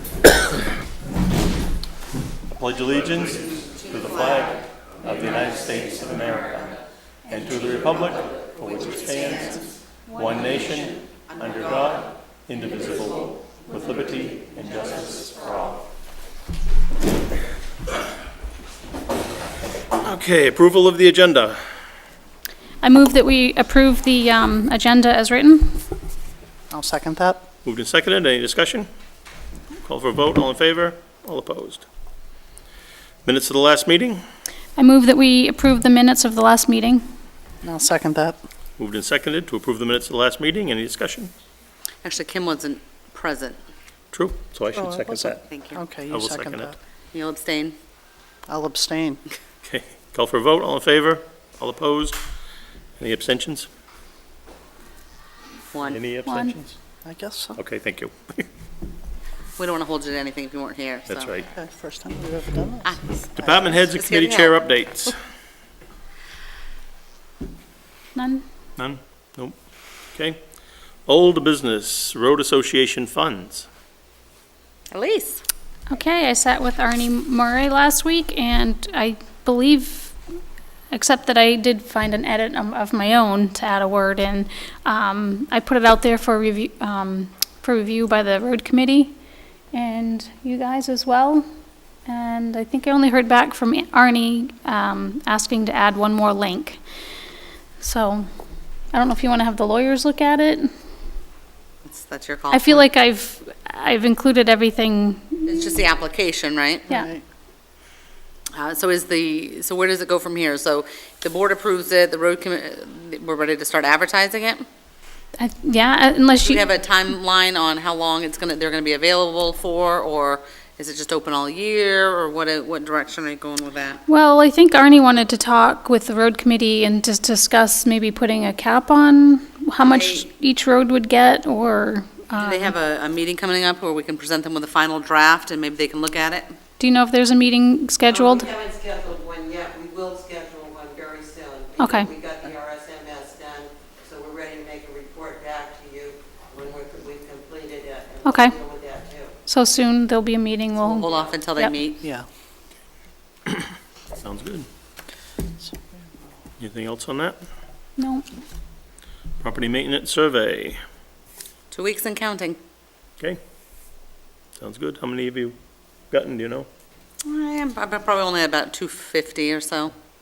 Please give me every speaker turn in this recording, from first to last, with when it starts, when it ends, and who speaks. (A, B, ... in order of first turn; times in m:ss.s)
0:02.5-0:06.7 A
0:07.3-0:15.8 A
0:20.0-0:21.6 A
0:22.8-0:25.8 B
0:26.7-0:27.4 C
0:27.6-0:28.9 A
0:29.8-0:31.8 A
0:33.2-0:34.2 A
0:34.8-0:37.1 B
0:37.6-0:38.4 C
0:38.8-0:41.3 A
0:42.0-0:43.6 D
0:44.1-0:45.4 A
0:44.7-0:46.8 C
0:45.5-0:45.8 D
0:46.1-0:46.7 A
0:47.1-0:47.7 D
0:48.5-0:49.2 C
0:49.6-0:52.2 A
0:53.0-0:53.7 A
0:55.7-0:56.0 D
0:55.8-0:56.7 A
0:56.2-0:56.6 B
0:57.0-0:57.6 C
0:57.6-0:58.5 A
0:59.6-1:01.3 D
1:01.1-1:01.5 A
1:01.5-1:02.9 C
1:02.8-1:04.6 D
1:03.4-1:05.2 A
1:08.1-1:08.4 B
1:08.8-1:09.6 A
1:10.1-1:10.4 A
1:11.1-1:13.7 A
1:14.9-1:15.4 D
1:15.9-1:20.2 B
1:20.9-1:29.2 B
1:29.7-1:31.5 B
1:32.0-1:36.8 B
1:37.8-1:38.3 B
1:38.9-1:40.7 B
1:41.8-1:42.8 D
1:42.5-1:45.6 B
1:45.5-1:46.9 D
1:46.9-1:47.2 C
1:48.5-1:54.6 D
1:55.4-1:56.6 B
1:56.4-2:04.0 D
2:04.1-2:12.7 B
2:09.8-2:10.2 D
2:12.3-2:16.5 D
2:16.8-2:18.5 B
2:18.1-2:29.4 E
2:21.8-2:22.1 B
2:28.2-2:28.6 B
2:29.5-2:31.7 B
2:30.8-2:32.0 D
2:34.2-2:34.7 A
2:36.6-2:37.4 A
2:38.0-2:38.3 B
2:39.4-2:40.8 A
2:41.7-2:42.6 D
2:44.6-2:45.6 A
2:46.1-2:46.7 A
2:47.2-2:49.9 D